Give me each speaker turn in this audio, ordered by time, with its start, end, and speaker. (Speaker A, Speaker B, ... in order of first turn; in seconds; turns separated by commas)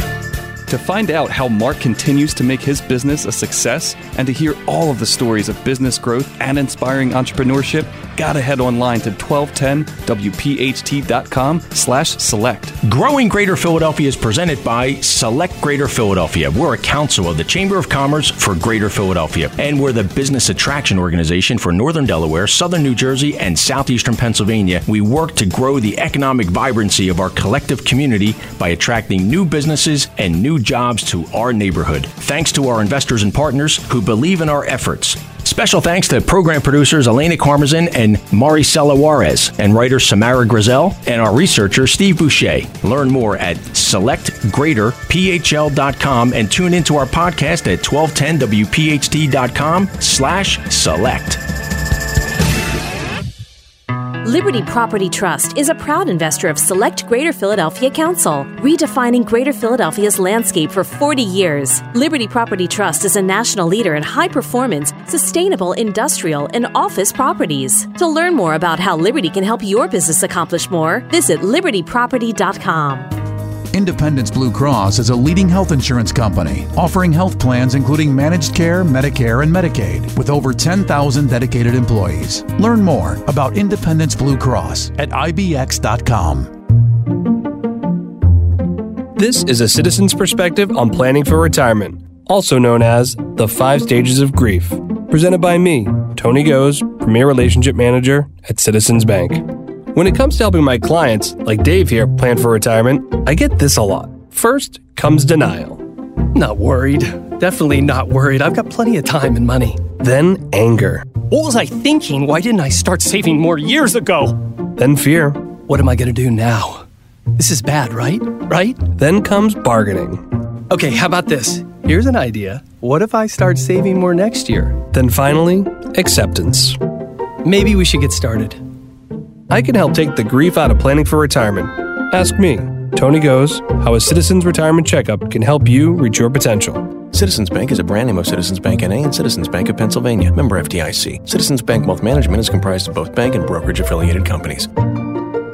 Speaker A: 0.7-12.8, Speaker B: 12.8-51.4, Speaker C: 54.2-73.1, Speaker D: 73.7-86.5, Speaker E: 89.1-105.8, Speaker F: 106.3-109.9, Speaker E: 109.9-111.1, Speaker F: 111.2-114.4, Speaker E: 114.8-115.4, Speaker F: 115.7-116.8, Speaker F: 117.4-118.9, Speaker E: 118.8-120.2, Speaker F: 120.7-124.8, Speaker E: 124.9-126.8, Speaker F: 127.4-128.6, Speaker E: 129.5-136.9, Speaker G: 137.1-144.7